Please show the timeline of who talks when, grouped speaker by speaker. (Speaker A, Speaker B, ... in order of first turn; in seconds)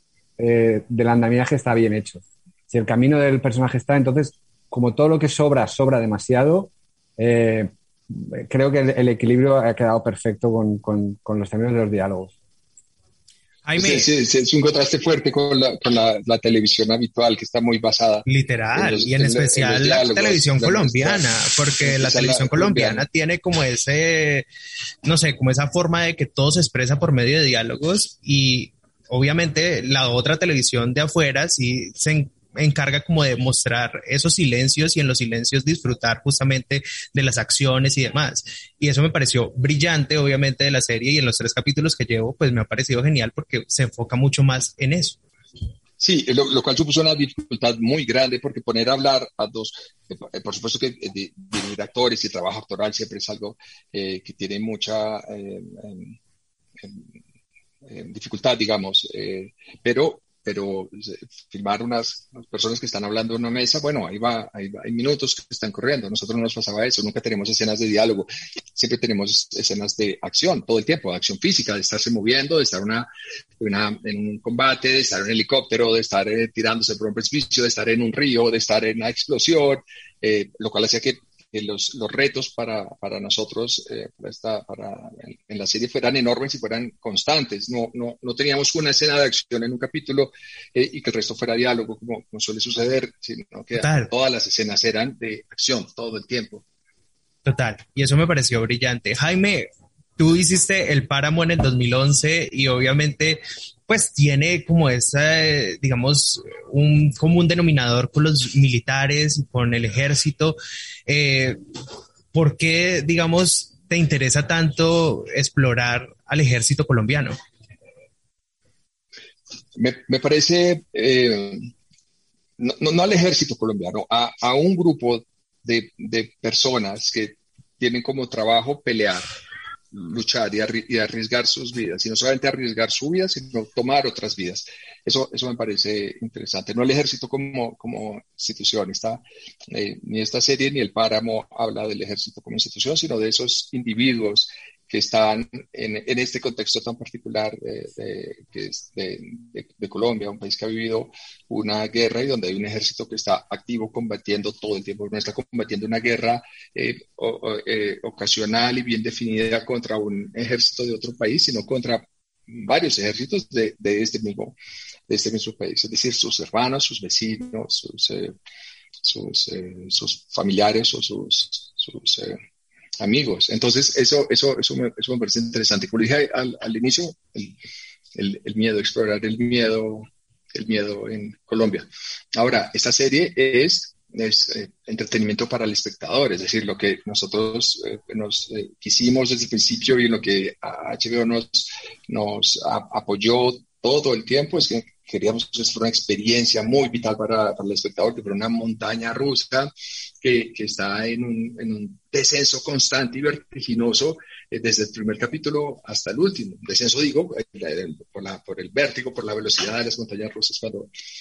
Speaker A: 0.4-12.3
Speaker B: 13.6-14.1, 18.2-24.4, 25.0-45.2, 93.8-94.1, 97.4-111.6, 112.3-117.4
Speaker C: 13.8-21.3, 21.8-23.0, 46.0-56.2, 57.8-96.6, 119.7-121.7, 122.6-129.3, 129.9-164.6, 165.1-168.3, 169.0-172.4, 173.0-177.6, 178.1-210.9